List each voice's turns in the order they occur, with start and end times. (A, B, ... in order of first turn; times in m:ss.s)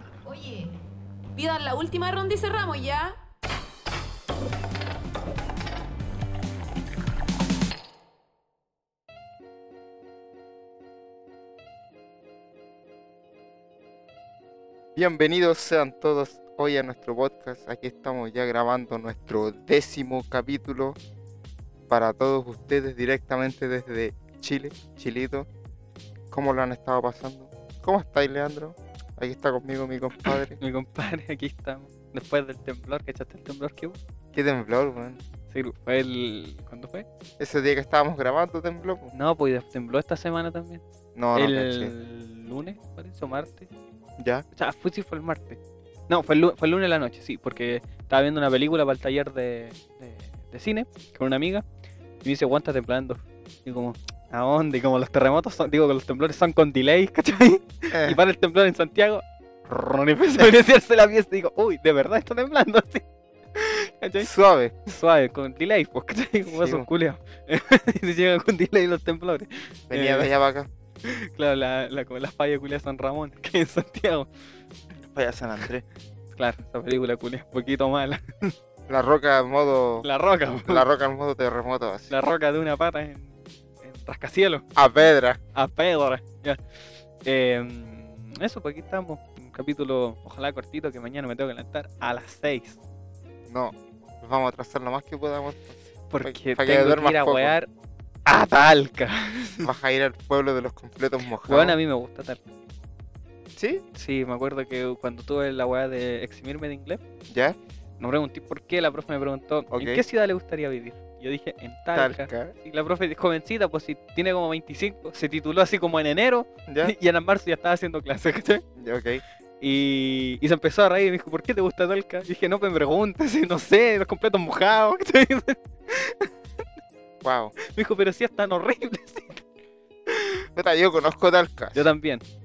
0:00.2-0:00.8 A
0:01.4-0:03.2 A
0:15.0-0:21.0 B
0:21.9-0:25.5 B
0:26.3-0:30.6 B
0:30.3-0:34.0 C
0:34.3-0:35.2 B
0:35.5-0:37.1 C
0:37.4-0:39.1 B
0:39.1-0:40.8 C
0:41.2-0:41.9 B
0:41.4-0:43.7 C
0:44.2-0:44.4 B
0:44.5-0:45.6 C
0:46.1-0:51.6 C
0:52.2-1:04.3 C
0:57.9-0:58.2 B
1:04.2-1:04.9 B
1:04.9-1:10.3 C
1:06.5-1:06.9 B
1:09.9-1:10.7 B
1:11.0-1:14.3 C
1:15.0-1:15.8 B
1:16.4-1:18.5 C
1:18.9-1:20.1 B
1:20.0-1:20.8 C
1:20.6-1:22.1 B
1:22.1-1:23.3 C
1:23.8-1:24.6 C
1:24.8-1:25.4 B
1:25.6-1:26.6 C
1:27.2-1:32.8 C
1:33.5-1:37.5 B
1:36.1-1:37.7 C
1:38.3-1:39.7 C
1:39.6-1:41.8 B
1:41.5-1:42.4 C
1:43.6-1:43.8 B
1:43.9-1:47.0 C
1:47.3-1:47.6 B
1:48.0-1:58.6 C
1:49.7-1:50.0 B
1:51.9-1:52.5 B
1:56.7-1:56.9 B
1:58.8-1:59.2 B
1:59.6-2:06.3 C
2:07.2-2:07.6 B
2:07.6-2:09.4 C
2:10.1-2:10.4 C
2:10.6-2:11.9 B
2:11.7-2:12.2 C